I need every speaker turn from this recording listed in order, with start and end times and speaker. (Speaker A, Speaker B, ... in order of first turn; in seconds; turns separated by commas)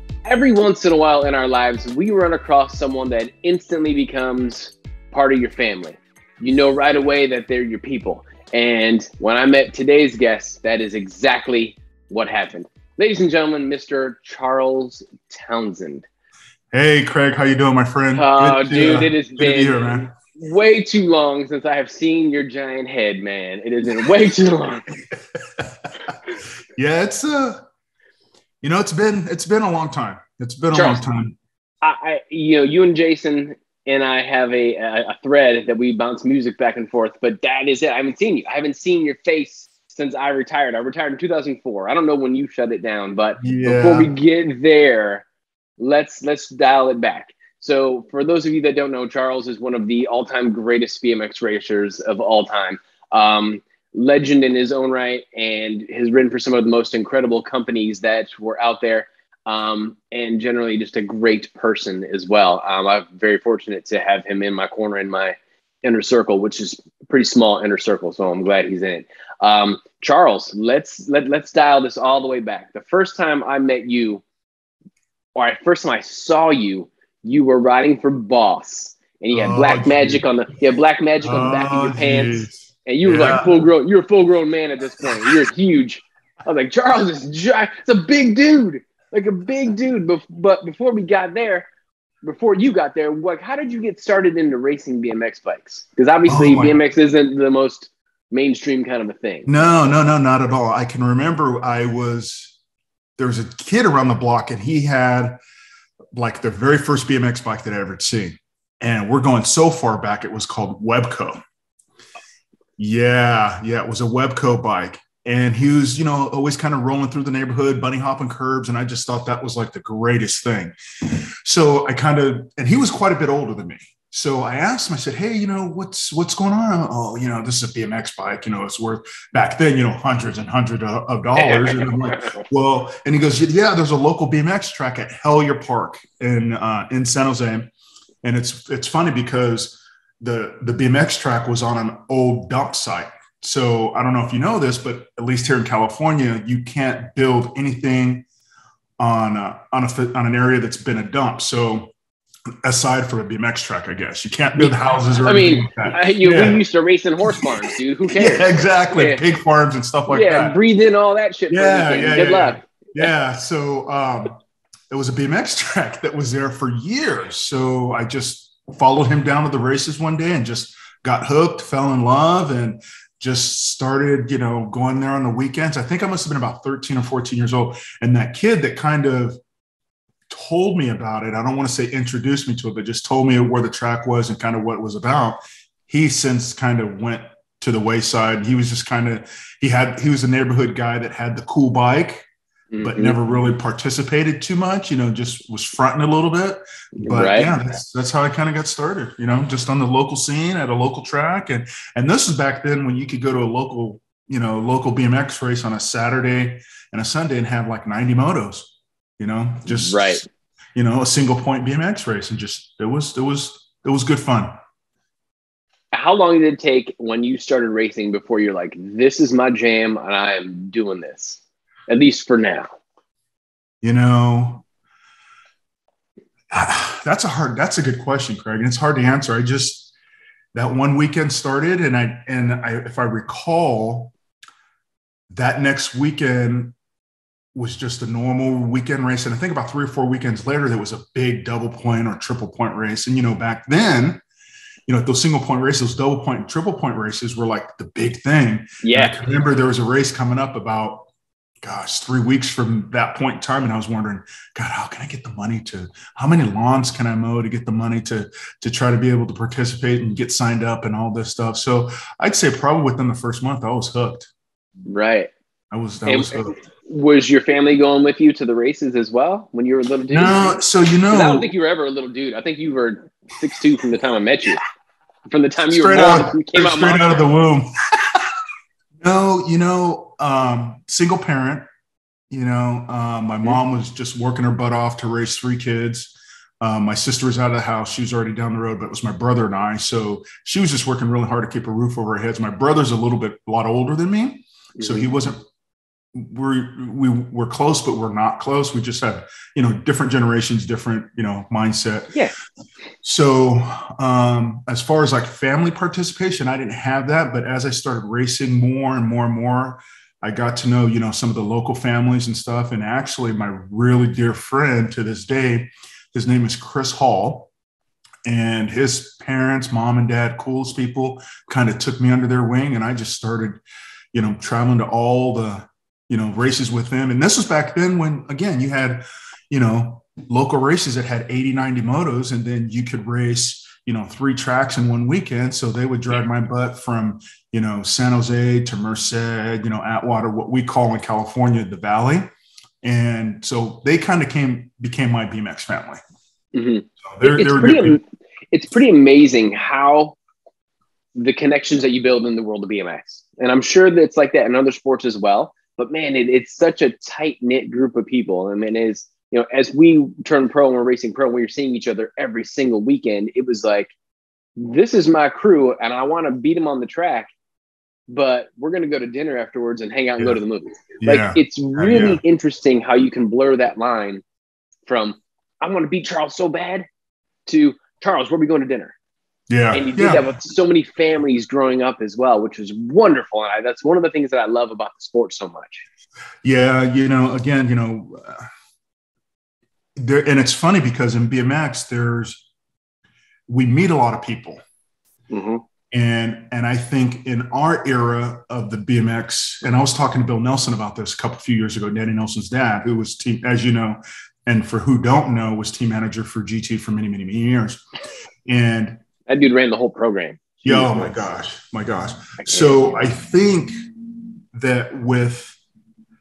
Speaker A: 0.2-16.1, Speaker B: 16.7-20.1, Speaker A: 18.1-24.9, Speaker B: 25.6-25.9, Speaker B: 26.8-27.6, Speaker B: 28.6-31.4, Speaker A: 30.7-31.0, Speaker A: 31.8-45.2, Speaker B: 43.4-44.1, Speaker A: 45.8-74.2, Speaker A: 75.3-91.7, Speaker B: 79.3-80.2, Speaker B: 81.2-83.7, Speaker A: 92.2-99.5, Speaker B: 96.3-96.8, Speaker B: 99.5-102.5, Speaker B: 103.2-105.4, Speaker B: 106.1-111.4, Speaker B: 112.8-120.7, Speaker B: 121.4-137.7, Speaker A: 131.3-132.4, Speaker B: 138.2-148.2, Speaker B: 149.0-151.9, Speaker B: 152.6-156.6, Speaker A: 154.6-159.2, Speaker B: 157.2-160.6, Speaker A: 160.1-163.1, Speaker B: 161.5-164.4, Speaker B: 164.9-179.4, Speaker B: 180.3-192.2, Speaker A: 192.7-193.2, Speaker B: 192.8-214.5, Speaker A: 197.0-197.5, Speaker A: 209.7-210.2, Speaker A: 215.9-222.7, Speaker B: 223.8-224.6, Speaker B: 226.5-229.9, Speaker B: 230.5-234.1, Speaker B: 235.3-236.7, Speaker B: 237.5-244.2, Speaker B: 244.9-251.1, Speaker A: 248.8-249.2, Speaker B: 251.6-264.3, Speaker A: 264.9-265.3, Speaker B: 265.7-266.6, Speaker A: 266.1-270.6, Speaker B: 270.1-271.5, Speaker A: 271.1-274.6, Speaker A: 275.3-277.2, Speaker B: 275.7-278.2, Speaker B: 279.0-281.6, Speaker B: 282.3-295.4, Speaker A: 294.8-295.1, Speaker B: 296.1-302.1, Speaker B: 303.0-317.5, Speaker B: 318.2-323.6, Speaker B: 324.1-342.3, Speaker B: 342.8-346.0, Speaker A: 346.5-350.2, Speaker B: 347.0-348.0, Speaker A: 351.1-363.9, Speaker A: 364.6-367.3, Speaker A: 368.1-374.2, Speaker B: 371.0-372.2, Speaker A: 374.9-376.9, Speaker A: 377.5-378.9, Speaker B: 379.5-380.2, Speaker A: 379.7-385.8, Speaker B: 386.4-388.5, Speaker B: 389.9-392.4, Speaker B: 393.5-394.6, Speaker A: 395.3-395.6, Speaker B: 395.9-407.8, Speaker B: 408.5-409.0, Speaker A: 409.3-411.1, Speaker B: 410.6-413.7, Speaker A: 412.4-413.1, Speaker B: 414.5-415.6